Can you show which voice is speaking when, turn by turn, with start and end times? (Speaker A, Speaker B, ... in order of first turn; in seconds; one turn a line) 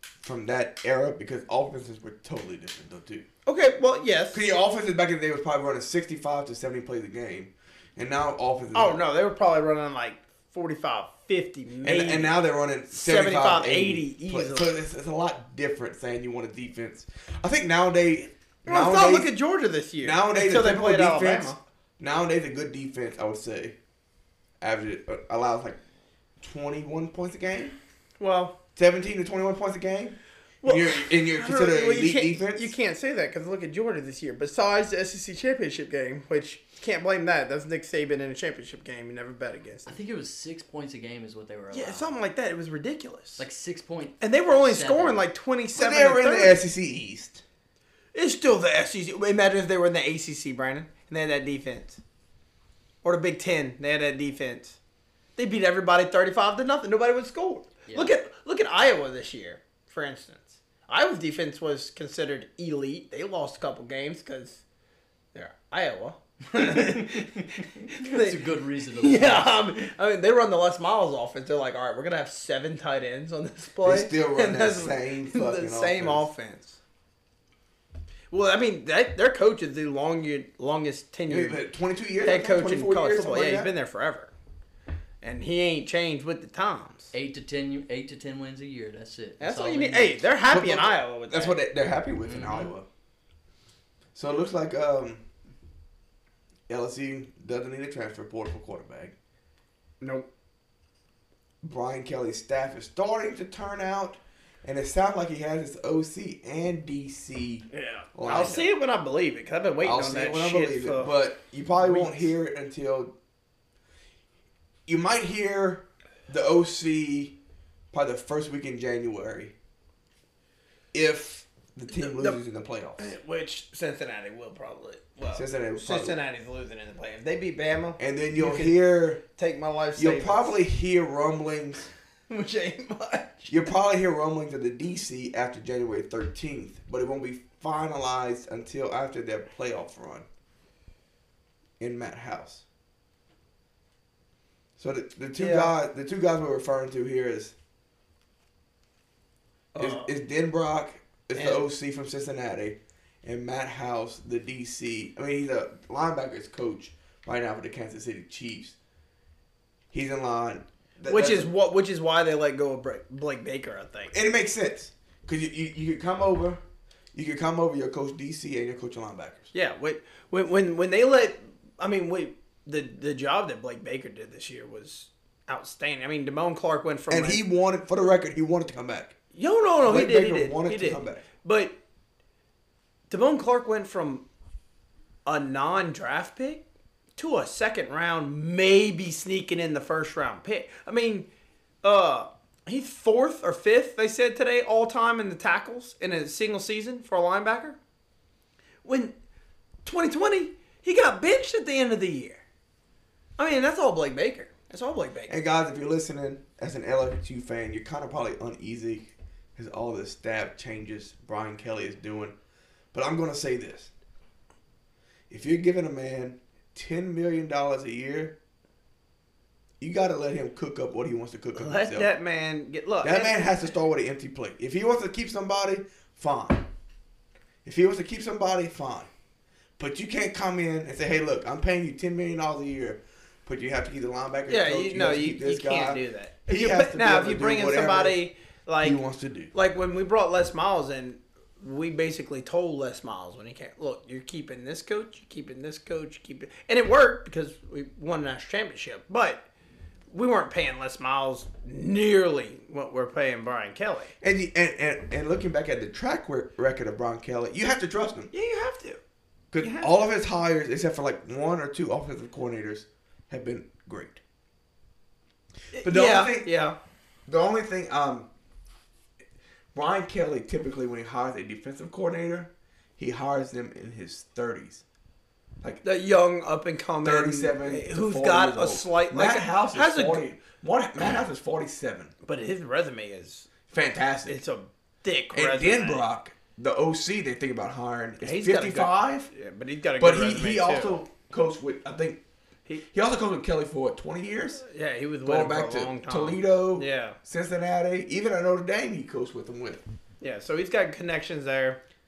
Speaker A: 0.2-3.3
Speaker B: 3.5-4.5
Speaker A: 4.3-9.0
Speaker B: 8.7-12.4
Speaker A: 11.8-19.3
Speaker B: 12.9-14.7
Speaker B: 18.7-21.6
Speaker A: 20.0-23.8
Speaker A: 24.6-25.8
Speaker A: 26.4-27.8
Speaker B: 28.2-28.6
Speaker A: 28.8-32.7
Speaker B: 30.6-39.9
Speaker C: 39.9-42.1
Speaker B: 41.7-43.4
Speaker C: 43.4-45.2
Speaker B: 44.2-46.6
Speaker A: 45.8-47.4
Speaker B: 48.1-52.0
Speaker B: 53.0-54.8
Speaker B: 55.4-64.6
Speaker C: 57.9-58.1
Speaker B: 65.3-76.8
Speaker C: 66.6-69.7
Speaker A: 73.8-76.3
Speaker B: 78.3-81.6
Speaker A: 81.3-83.7
Speaker B: 82.2-84.3
Speaker B: 85.2-87.1
Speaker C: 87.1-90.2
Speaker B: 89.4-91.6
Speaker A: 90.5-92.9
Speaker C: 92.2-92.7
Speaker A: 94.2-95.2
Speaker A: 96.7-99.2
Speaker B: 100.0-100.3
Speaker A: 101.6-108.7
Speaker B: 107.7-111.1
Speaker A: 109.8-113.1
Speaker B: 111.8-112.3
Speaker A: 114.9-117.3
Speaker A: 117.9-119.5
Speaker A: 120.9-123.1
Speaker B: 121.9-122.4
Speaker B: 123.0-130.6
Speaker A: 125.3-126.2
Speaker A: 128.0-129.2
Speaker A: 130.0-131.9
Speaker B: 132.3-133.7
Speaker A: 133.5-140.3
Speaker A: 141.8-142.7
Speaker A: 144.8-147.6
Speaker B: 145.4-145.7
Speaker B: 149.8-150.1
Speaker A: 149.8-158.8
Speaker B: 151.3-151.7
Speaker A: 159.9-161.5
Speaker B: 161.1-164.2
Speaker A: 164.1-166.6
Speaker A: 167.1-169.5
Speaker B: 169.5-177.4
Speaker A: 177.1-179.2
Speaker B: 179.3-181.8
Speaker A: 179.8-181.2
Speaker B: 183.1-184.2
Speaker B: 185.3-186.6
Speaker B: 187.2-191.3
Speaker B: 191.8-197.8
Speaker B: 198.8-199.1
Speaker B: 199.8-202.4
Speaker B: 203.4-205.4
Speaker A: 205.3-212.3
Speaker A: 212.9-213.9
Speaker A: 215.3-218.4
Speaker A: 219.8-222.1
Speaker B: 221.6-223.5
Speaker A: 223.0-226.7
Speaker A: 227.7-229.1
Speaker A: 229.8-238.2
Speaker B: 234.5-239.0
Speaker A: 238.8-239.5
Speaker B: 239.5-249.4
Speaker B: 250.1-254.1
Speaker A: 254.2-258.3
Speaker B: 258.3-259.0
Speaker A: 259.5-264.2
Speaker B: 259.6-259.9
Speaker B: 265.7-266.8
Speaker A: 265.8-266.5
Speaker A: 267.3-268.3
Speaker A: 269.7-274.8
Speaker B: 275.8-280.2
Speaker A: 277.0-282.1
Speaker B: 282.2-283.5
Speaker A: 283.7-284.4
Speaker B: 284.3-286.1
Speaker A: 285.3-289.3
Speaker B: 288.2-291.0
Speaker A: 290.0-292.2
Speaker A: 292.9-294.6
Speaker B: 294.6-297.2
Speaker A: 295.2-299.8
Speaker B: 300.2-301.8